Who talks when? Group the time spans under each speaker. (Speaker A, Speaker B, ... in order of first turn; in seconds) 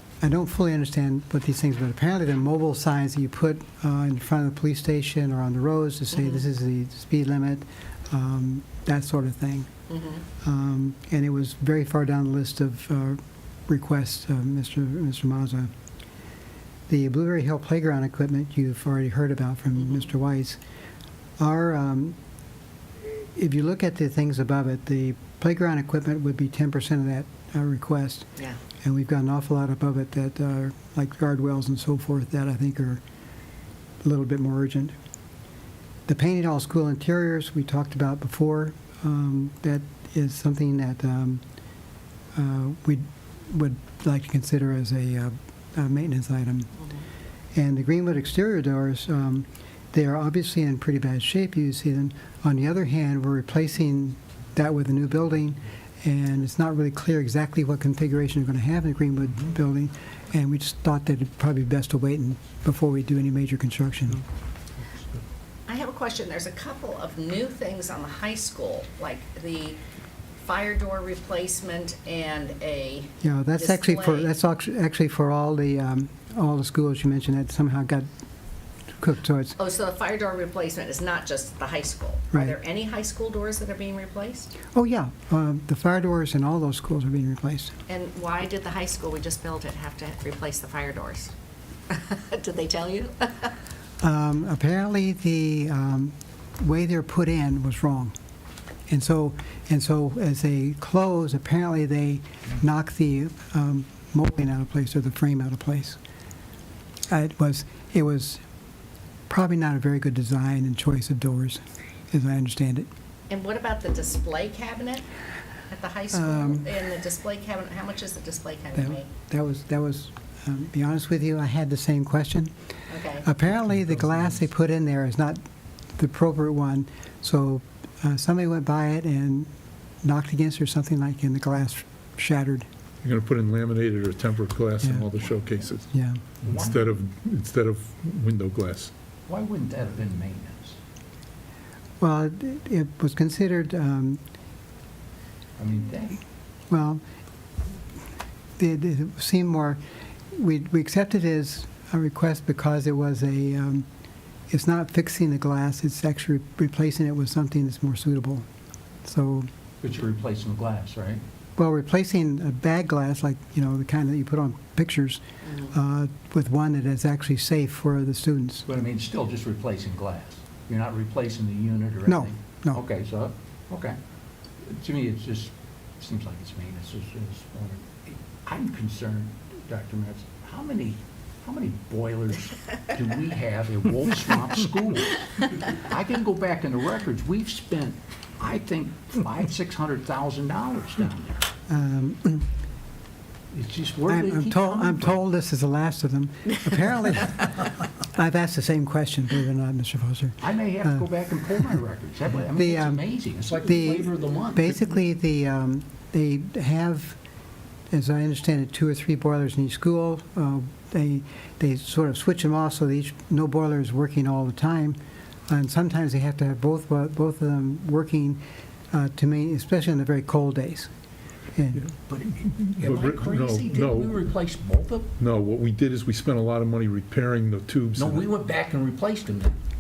Speaker A: 0.2-9.7, 10.4-15.7, 16.9-20.6, 21.4-22.2, 23.0-28.3, 28.8-33.0, 34.0-35.0, 36.1-41.4, 42.4-46.7, 47.5-64.2, 73.2-78.1, 79.0-79.6, 84.7-87.8, 94.0-98.2, 98.9-106.0, 107.1-108.4, 109.3-112.9, 116.1-116.7, 118.8-122.5, 123.2-125.4, 126.0-129.5, 130.0-132.7, 135.9-136.2, 142.0-144.2, 146.7-147.0, 148.6-149.8, 150.3-153.9, 154.5-158.5, 159.0-159.5, 161.6-168.7, 172.1-172.8, 191.7-192.5, 194.1-201.1, 202.5-207.2, 207.9-220.9, 221.6-221.9
Speaker B: 65.7-69.8, 70.4-74.3, 79.6-84.5, 87.9-91.3, 91.9-93.5, 113.3-115.0, 115.7-119.1, 122.9-123.3
Speaker C: 133.0-135.9, 136.4-138.9, 222.7-224.2, 225.2-228.3
Speaker D: 136.4-136.8, 139.3-140.8, 145.6-146.2, 159.8-161.2, 168.7-174.0, 174.6-191.5, 193.5-195.2, 200.4-204.7, 222.1-225.1, 228.0-229.6